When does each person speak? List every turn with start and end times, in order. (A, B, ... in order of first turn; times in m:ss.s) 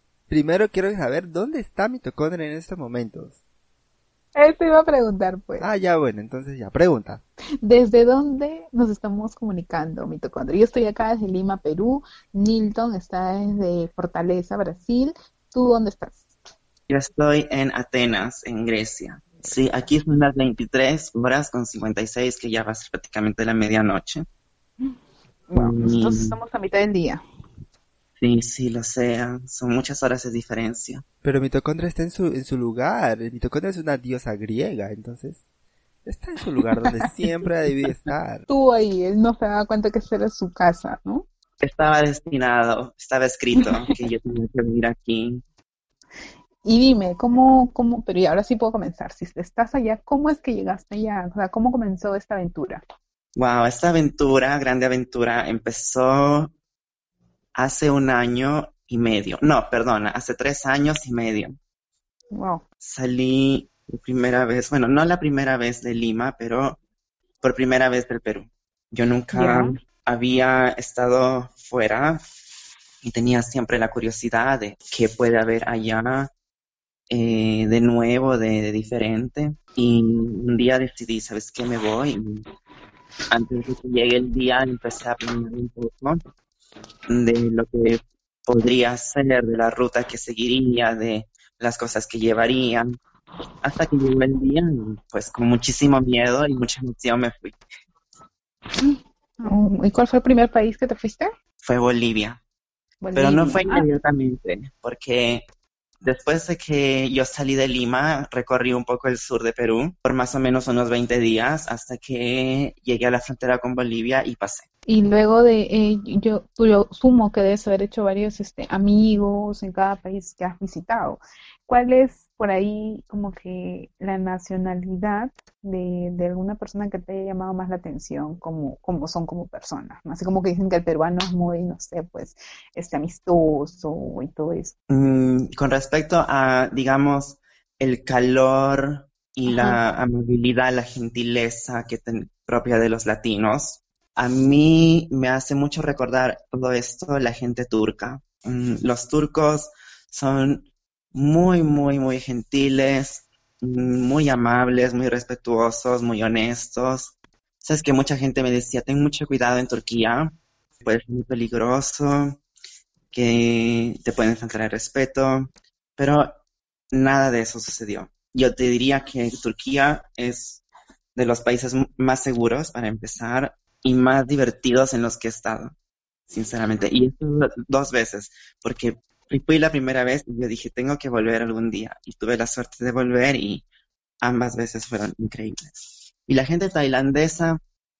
0:00.3-0:03.4 A
0:04.4-0:05.7 B
0:05.6-0:07.2 A
0:07.6-0:16.2 B
0:16.9-0:24.2 C
0:25.5-0:27.2 B
0:25.5-0:26.4 C
0:28.2-0:31.0 C
0:31.2-0:35.4 A
0:36.0-0:38.5 A
0:38.5-0:41.2 B
0:41.6-0:45.4 C
0:43.6-0:44.0 B
0:46.6-0:52.8 B
0:53.4-0:56.5 C
0:57.6-1:01.5 C
1:02.3-1:02.6 B
1:02.8-1:06.8 C
1:07.4-1:12.2 C
1:09.3-1:09.8 B
1:13.0-1:16.3 C
1:17.1-1:22.4 C
1:23.3-1:26.2 C
1:27.1-1:33.0 C
1:33.6-1:37.6 C
1:38.8-1:41.3 B
1:41.6-1:42.4 C
1:43.0-1:43.8 B
1:43.2-1:45.5 C
1:46.0-1:54.6 C
1:54.9-2:14.7 B
2:14.9-2:42.4 C
2:19.5-2:19.8 B
2:43.1-2:46.4 C
2:46.9-2:50.6 C
2:51.2-2:55.7 C
2:56.3-3:03.6 C
3:04.2-3:07.6 C